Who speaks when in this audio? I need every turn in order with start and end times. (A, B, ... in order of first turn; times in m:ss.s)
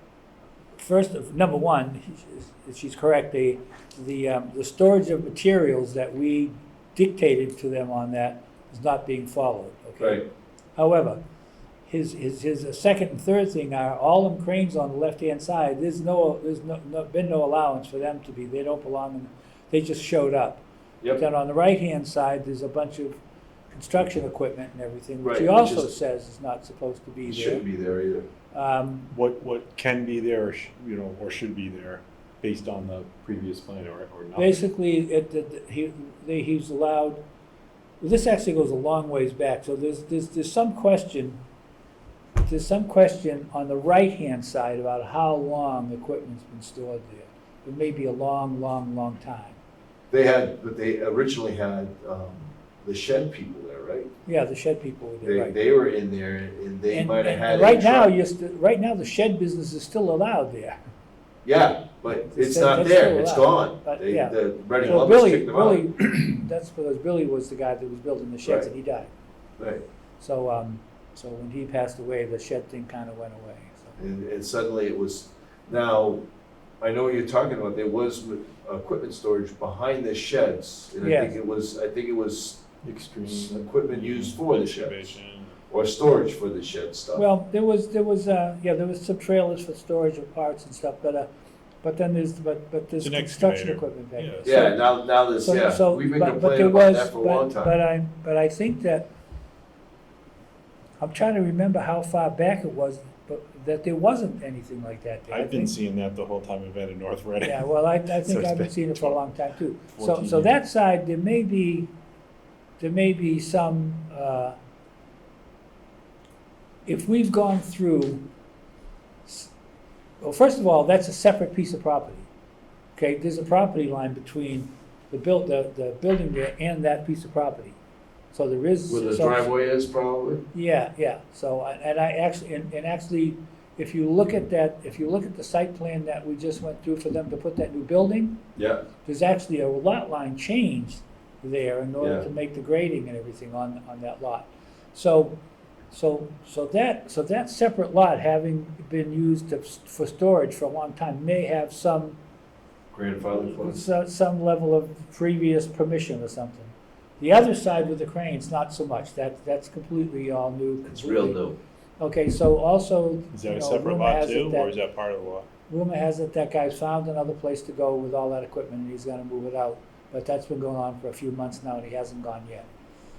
0:00.8-0:10.2 A
0:10.0-0:10.2 B
0:10.8-0:11.2 A
0:11.9-0:23.2 A
0:23.7-0:27.6 A
0:25.2-0:25.9 B
0:27.3-0:28.3 B
0:28.5-0:29.1 A
0:29.1-0:34.6 C
0:34.4-0:37.2 A
0:38.0-0:41.4 A
0:42.4-0:49.6 A
0:50.1-0:54.1 B
0:54.3-0:55.6 A
0:55.2-0:58.1 B
0:56.9-1:00.8 A
1:01.4-1:05.9 B
1:02.1-1:09.1 A
1:04.8-1:05.1 C
1:08.4-1:08.7 B
1:09.6-1:09.8 B
1:10.2-1:14.0 A
1:14.0-1:16.2 B
1:16.8-1:22.6 B
1:21.0-1:21.4 A
1:22.8-1:25.6 C
1:23.3-1:25.2 B
1:25.7-1:27.2 B
1:27.1-1:31.3 A
1:31.8-1:34.9 A
1:33.0-1:34.6 C
1:34.4-1:37.7 B
1:35.4-1:39.1 A
1:41.0-1:45.7 A
1:45.3-1:49.3 C
1:47.4-1:51.9 A
1:50.0-1:50.6 C
1:52.8-1:54.6 A
1:56.9-1:58.2 A
1:59.3-1:59.5 A
2:00.2-2:02.3 A
2:03.0-2:07.8 A
2:08.3-2:09.5 A
2:08.9-2:10.4 B
2:10.5-2:18.4 A
2:18.6-2:18.8 B
2:19.0-2:25.4 A
2:22.0-2:22.2 B
2:25.9-2:32.2 A
2:32.9-2:33.8 B
2:33.3-2:41.4 A
2:40.8-2:41.6 B
2:42.0-2:44.7 A
2:43.3-2:45.5 C
2:45.7-2:52.7 A